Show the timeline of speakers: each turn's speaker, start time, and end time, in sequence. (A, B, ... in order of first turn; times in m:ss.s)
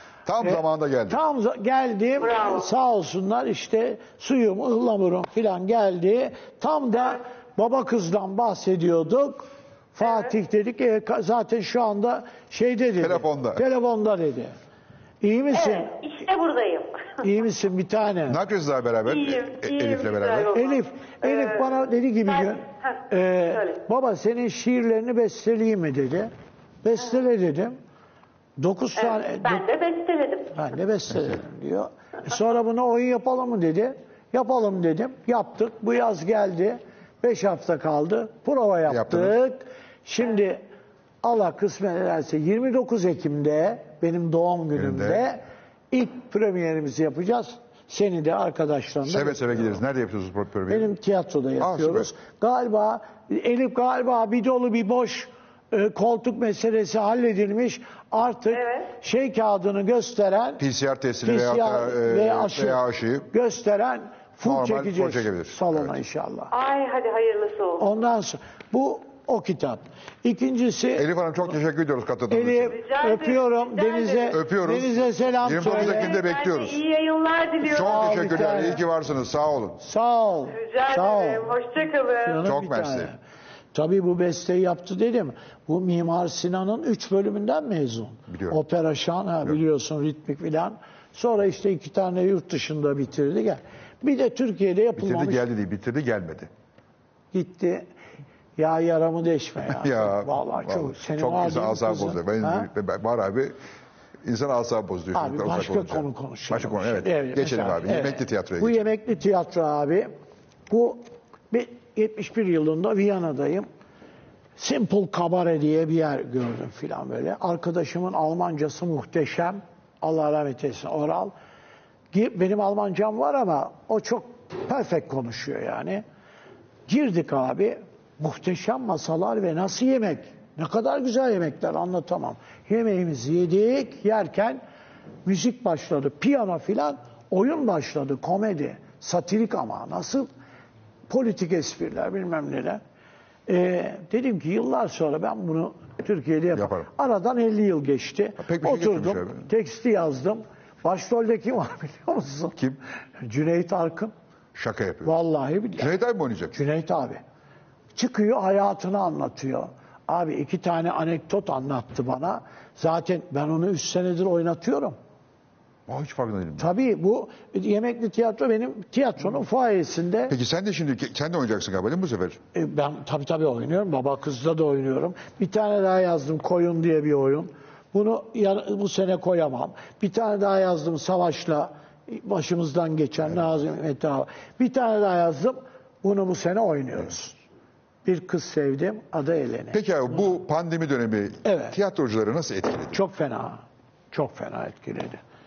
0:00.2-0:01.2 A
0:00.4-0:14.5 B
0:02.2-0:02.6 C
0:13.0-0:13.6 A
0:15.2-0:16.0 B
0:15.5-0:17.2 C
0:17.2-0:18.4 B
0:18.3-0:20.6 A
0:19.1-0:21.6 C
0:20.5-0:26.3 B
0:26.8-0:27.8 B
0:28.6-0:29.7 B
0:29.0-0:30.5 C
0:30.5-0:40.6 B
0:38.9-0:39.4 A
0:41.2-0:49.8 B
0:44.7-0:45.2 A
0:49.0-0:50.9 A
0:50.7-1:00.6 B
0:51.6-0:52.1 A
0:58.5-0:58.9 C
1:00.6-1:03.3 A
1:01.2-1:06.5 B
1:04.4-1:06.0 A
1:06.5-1:07.8 C
1:07.8-1:11.1 B
1:11.0-1:12.8 A
1:12.3-1:16.2 B
1:12.7-1:14.4 C
1:14.3-1:16.8 A
1:15.6-1:18.7 C
1:17.6-1:19.8 A
1:17.7-1:18.8 B
1:19.8-1:21.6 B
1:20.6-1:22.4 C
1:22.2-1:23.2 B
1:22.4-1:23.1 A
1:23.7-1:35.4 B
1:28.3-1:28.6 A
1:35.0-1:36.5 A
1:37.3-1:37.9 B
1:38.6-1:42.7 B
1:39.7-1:43.6 A
1:44.2-1:48.8 A
1:45.1-1:50.1 B
1:50.7-1:53.7 B
1:54.6-2:01.3 B
2:02.1-2:06.0 B
2:06.9-2:14.6 B
2:15.2-2:20.3 B
2:21.1-2:22.8 B
2:23.5-2:32.6 B
2:26.5-2:26.9 A
2:28.4-2:29.5 A
2:33.2-2:34.1 B
2:34.5-2:35.1 A
2:35.0-2:35.9 B
2:35.7-2:36.6 A
2:36.5-2:37.2 B
2:37.9-2:45.0 B
2:45.9-2:46.7 A
2:46.6-2:50.3 B
2:50.3-2:52.4 A
2:52.5-3:07.4 B
3:08.0-3:09.8 B
3:09.7-3:13.0 A
3:11.4-3:11.8 B
3:12.9-3:15.2 B